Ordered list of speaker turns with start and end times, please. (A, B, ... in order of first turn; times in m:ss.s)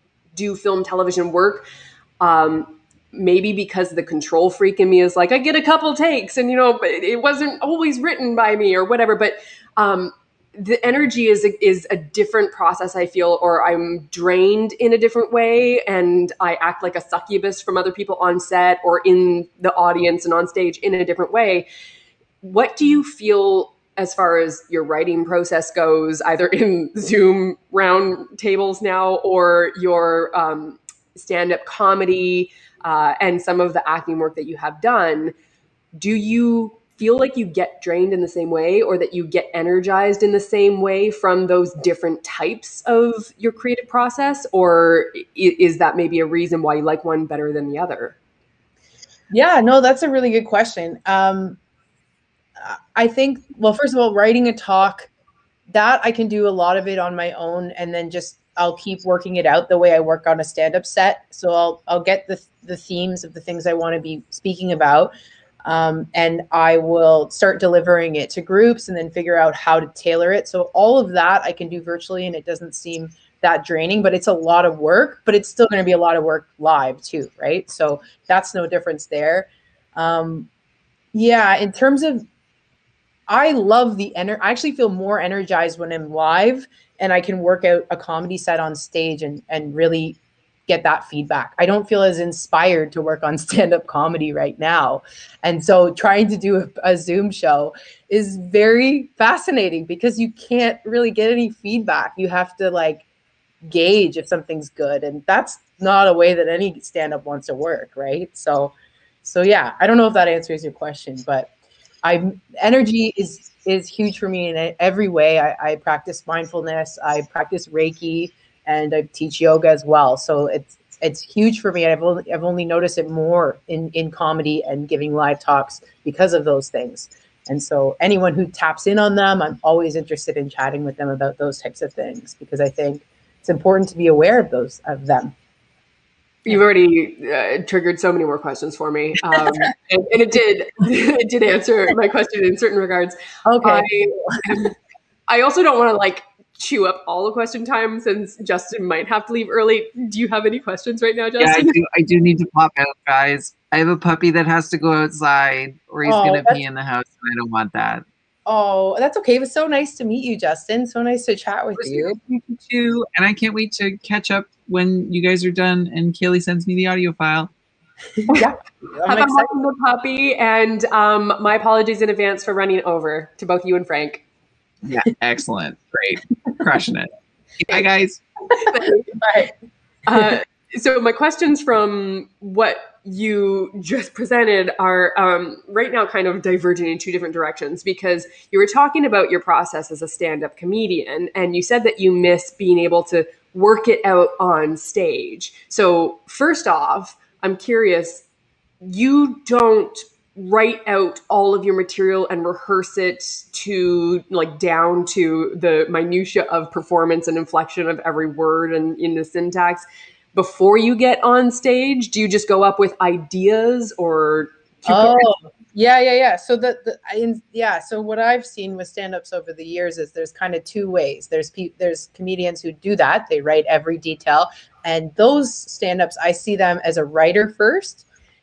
0:00.3-0:01.6 A
0:02.2-0:21.7 A
0:22.4-0:35.3 A
0:35.9-0:48.2 A
0:49.3-0:51.6 B
0:52.6-0:55.1 B
0:55.7-1:05.1 B
1:05.6-1:20.5 B
1:21.1-1:22.2 B
1:23.3-1:43.0 B
1:43.6-1:48.7 B
1:49.2-1:51.5 B
1:52.0-2:15.3 B
2:16.4-2:24.7 A
2:19.3-2:19.6 B
2:23.4-2:24.5 B
2:25.3-2:31.8 A
2:31.4-2:38.0 C
2:36.0-2:36.6 B
2:38.5-2:42.2 B
2:41.8-2:47.5 C
2:48.2-2:49.5 B
2:49.0-2:54.2 A
2:54.8-2:57.1 C
2:57.6-2:58.2 C
2:58.6-2:59.1 A
2:59.1-2:59.5 B
3:00.1-3:18.2 A
3:18.8-3:35.3 A
3:34.9-3:48.0 B